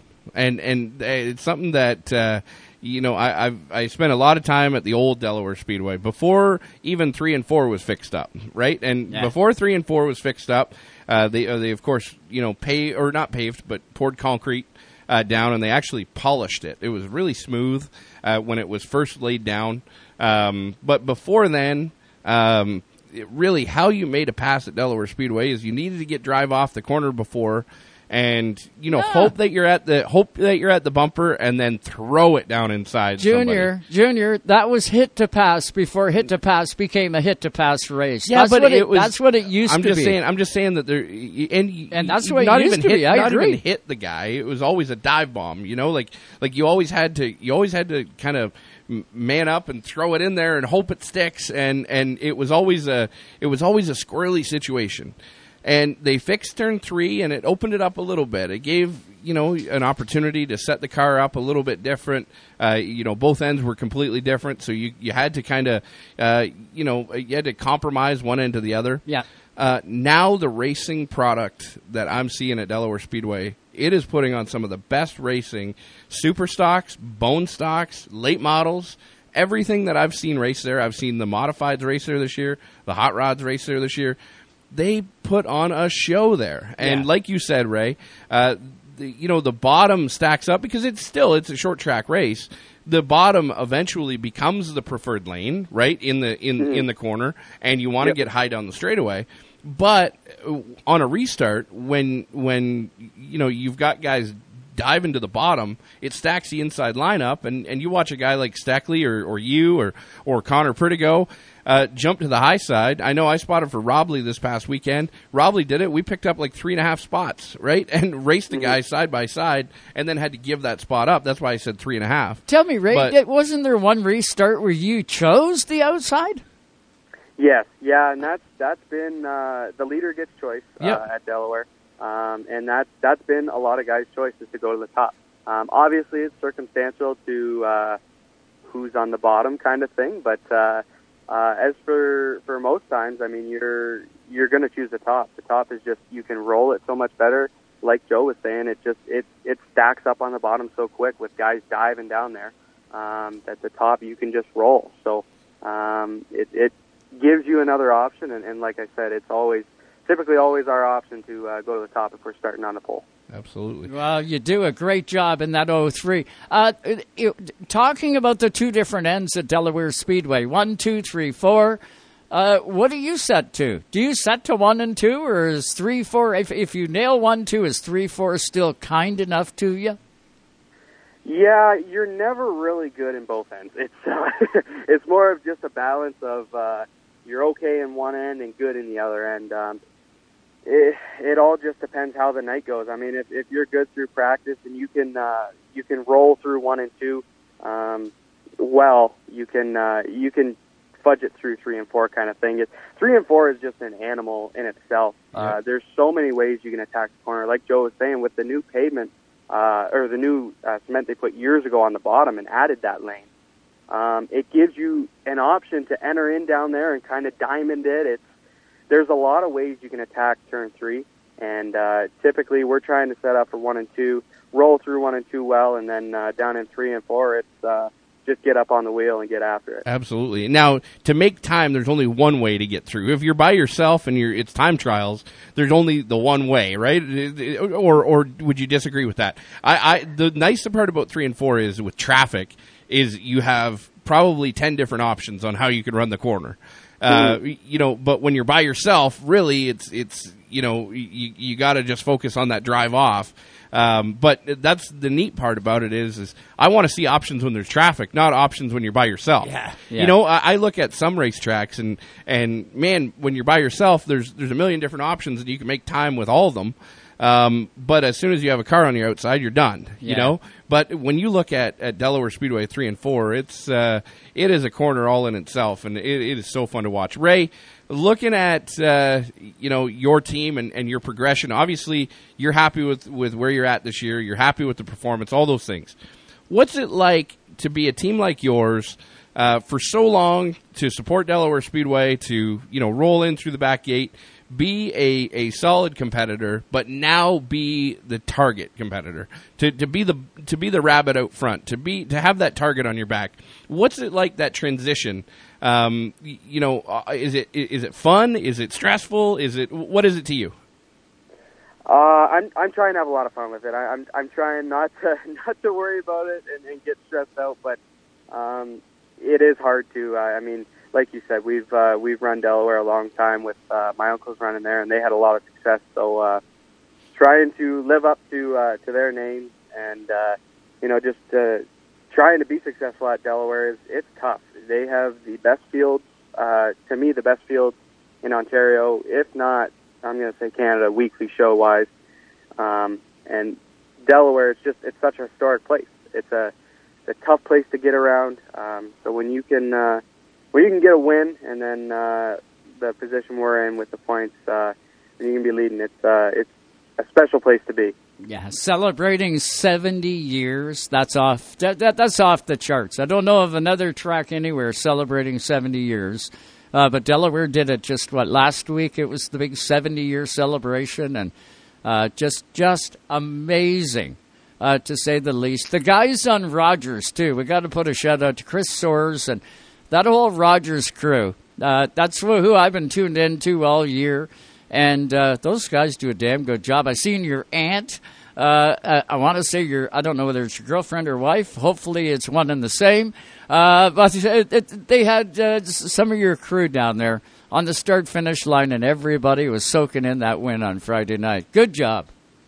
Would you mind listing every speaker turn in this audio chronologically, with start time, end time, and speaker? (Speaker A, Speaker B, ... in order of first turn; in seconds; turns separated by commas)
Speaker A: 0.3-33.7, Speaker B: 28.9-29.3, Speaker B: 33.2-40.2, Speaker A: 38.3-69.1, Speaker B: 41.9-43.6, Speaker A: 69.6-84.2, Speaker A: 84.7-123.2, Speaker B: 86.8-87.1, Speaker C: 96.6-96.8, Speaker C: 118.5-118.8, Speaker B: 122.5-126.4, Speaker C: 127.4-138.0, Speaker C: 138.7-163.0, Speaker A: 163.3-163.9, Speaker B: 163.9-171.8, Speaker B: 172.3-180.0, Speaker C: 181.2-189.8, Speaker C: 190.7-213.3, Speaker C: 213.9-218.3, Speaker C: 218.9-229.8, Speaker A: 229.9-286.0, Speaker C: 247.1-247.4, Speaker B: 259.4-260.1, Speaker B: 270.0-270.4, Speaker A: 286.5-310.6, Speaker C: 311.9-317.8, Speaker C: 318.3-326.4, Speaker C: 327.1-341.9, Speaker C: 342.6-346.5, Speaker C: 347.1-350.0, Speaker C: 350.5-357.9, Speaker B: 358.2-371.3, Speaker B: 371.8-402.1